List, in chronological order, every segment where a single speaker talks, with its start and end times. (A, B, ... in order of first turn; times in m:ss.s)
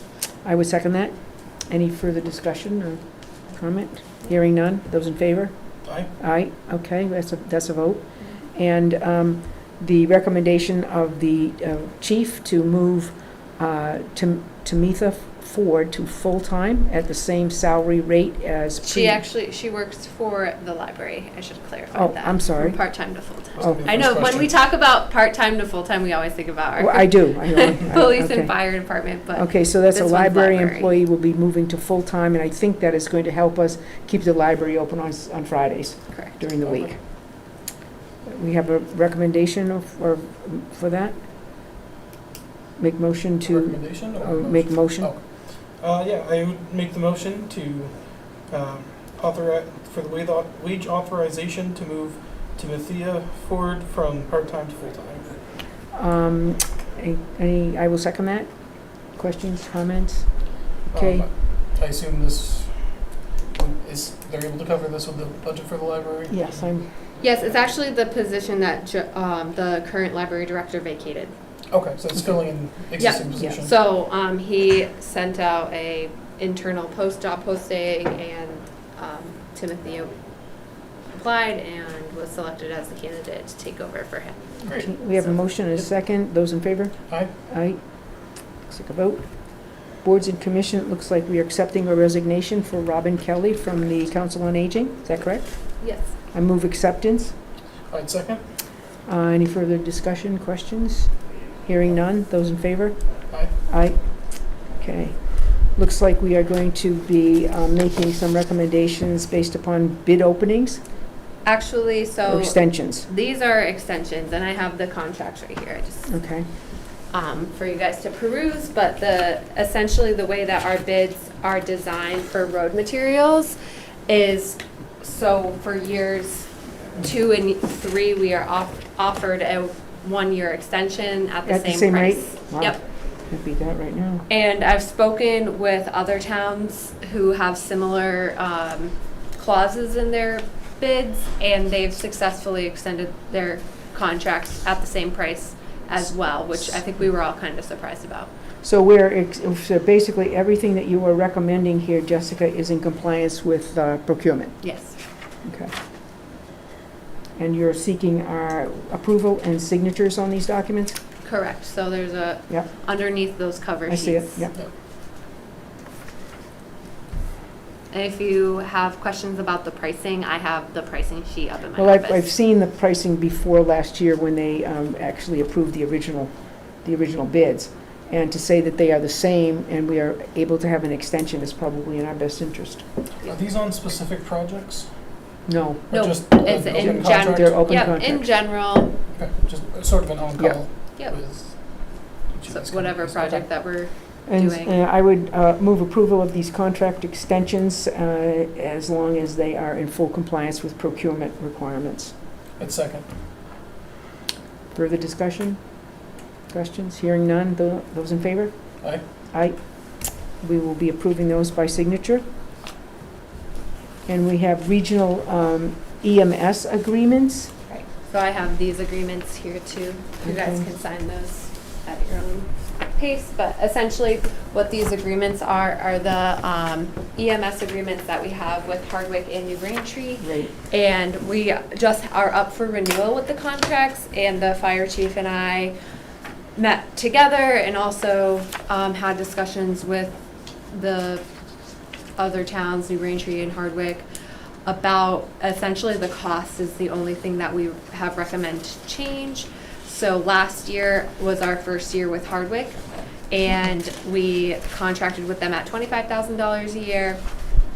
0:00.4-0:19.2 A
0:18.8-0:30.9 B
0:21.9-0:22.8 A
0:23.6-0:24.6 C
0:23.6-0:23.9 A
0:26.8-0:28.8 A
0:29.3-0:37.1 A
0:36.6-0:36.9 C
0:38.2-0:41.3 A
0:42.8-0:45.1 A
0:43.4-0:55.3 C
0:55.9-1:01.3 A
1:00.9-1:06.7 C
1:06.3-1:07.0 A
1:07.2-1:11.3 B
1:11.7-1:13.7 C
1:13.0-1:20.1 B
1:21.1-1:24.5 B
1:24.6-1:29.2 A
1:24.7-1:24.9 C
1:30.0-1:35.6 A
1:35.8-1:36.1 B
1:36.3-1:37.3 A
1:37.9-1:38.4 C
1:39.0-1:43.0 A
1:43.7-1:44.0 A
1:44.6-1:50.8 A
1:51.4-1:56.1 B
1:52.2-1:53.1 A
1:56.1-1:56.4 A
1:57.1-2:03.6 B
2:04.1-2:12.8 B
2:11.4-2:14.3 A
2:14.3-2:28.3 B
2:28.6-2:34.6 A
2:34.6-2:35.0 B
2:35.4-2:35.7 A
2:37.4-2:41.0 A
2:41.2-2:44.5 B
2:43.9-2:44.6 A
2:47.9-2:52.2 B
2:51.8-3:02.8 A
3:03.2-3:05.0 C
3:05.4-3:08.3 A
3:05.9-3:08.0 C
3:05.9-3:08.9 B
3:09.1-3:13.4 C
3:12.5-3:14.7 B
3:14.3-3:22.1 A
3:22.6-3:23.1 C
3:24.7-3:25.6 A
3:26.5-3:28.5 A
3:29.3-3:29.6 A
3:30.4-3:32.2 A
3:34.0-3:37.5 A
3:37.7-3:55.7 B
3:40.2-3:40.6 A
3:50.2-3:50.5 A
3:56.6-4:01.2 B
4:02.2-4:04.0 B
4:04.6-4:12.8 B
4:13.3-4:17.2 B